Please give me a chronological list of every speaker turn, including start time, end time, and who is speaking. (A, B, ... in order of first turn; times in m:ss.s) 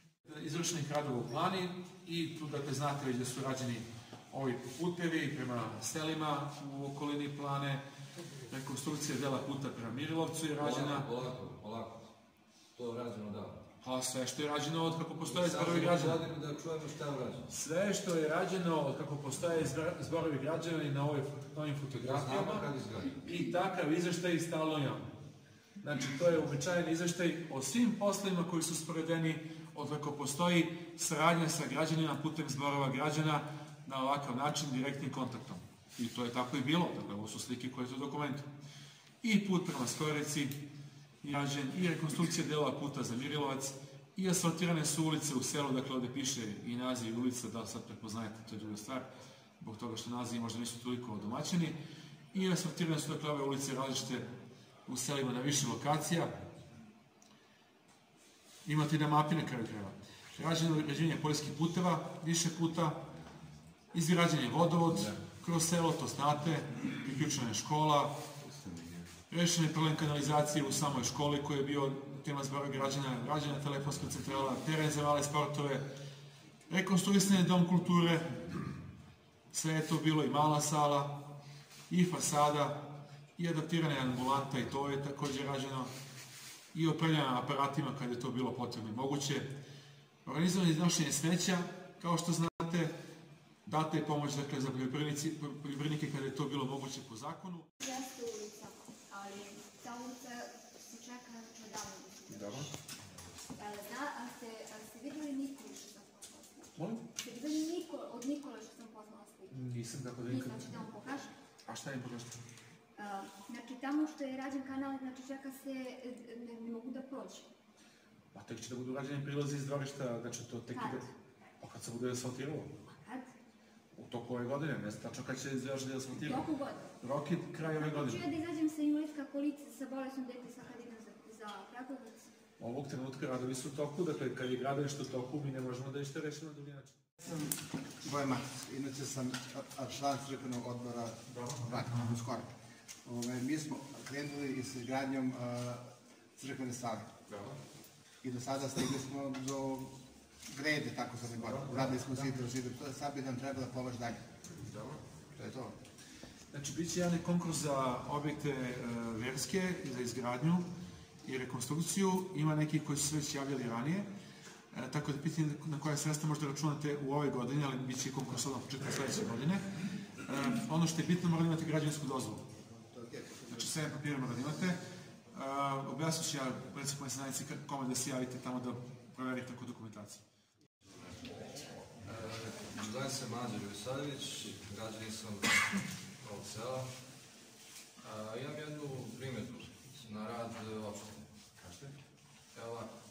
0:00.2-0:07.8 A
0:08.5-0:11.1 A
0:10.6-0:12.1 B
0:12.7-0:13.6 B
0:13.8-0:16.2 A
0:15.2-0:17.5 B
0:17.5-0:22.6 A
0:21.9-0:23.2 B
0:23.2-0:25.1 A
0:25.8-0:38.4 A
0:39.2-0:40.6 A
0:41.2-0:49.1 A
0:49.6-0:51.8 A
0:52.3-0:54.3 A
0:54.8-0:56.3 A
0:58.6-1:03.0 A
1:03.9-1:08.1 A
1:08.6-1:08.9 B
1:09.3-1:15.8 A
1:16.7-1:18.6 A
1:19.5-1:21.2 A
1:21.9-1:25.9 A
1:26.7-1:29.5 A
1:30.2-1:32.9 A
1:33.6-1:37.7 A
1:37.8-1:42.7 C
1:42.3-1:42.7 A
1:43.6-1:49.6 C
1:46.7-1:47.1 A
1:49.5-1:50.8 A
1:50.2-1:51.3 C
1:51.7-1:52.4 A
1:53.0-1:57.5 C
1:58.3-2:02.7 A
2:00.7-2:01.1 C
2:02.8-2:03.3 C
2:03.9-2:06.4 A
2:06.2-2:07.0 C
2:07.0-2:08.2 A
2:07.8-2:12.3 C
2:12.6-2:17.0 A
2:17.2-2:22.5 D
2:21.3-2:22.2 A
2:23.0-2:25.8 D
2:26.4-2:27.1 D
2:28.2-2:29.9 D
2:30.5-2:34.2 D
2:31.4-2:32.3 A
2:34.7-2:35.0 A
2:35.4-2:35.7 D
2:36.5-2:40.6 A
2:41.2-2:44.1 A
2:44.7-2:49.6 A
2:50.2-2:52.4 A
2:52.7-2:53.7 D
2:53.5-2:54.8 A
2:55.3-3:00.2 A
3:01.0-3:01.4 B
3:02.0-3:06.9 B
3:08.0-3:11.2 B
3:12.5-3:12.9 B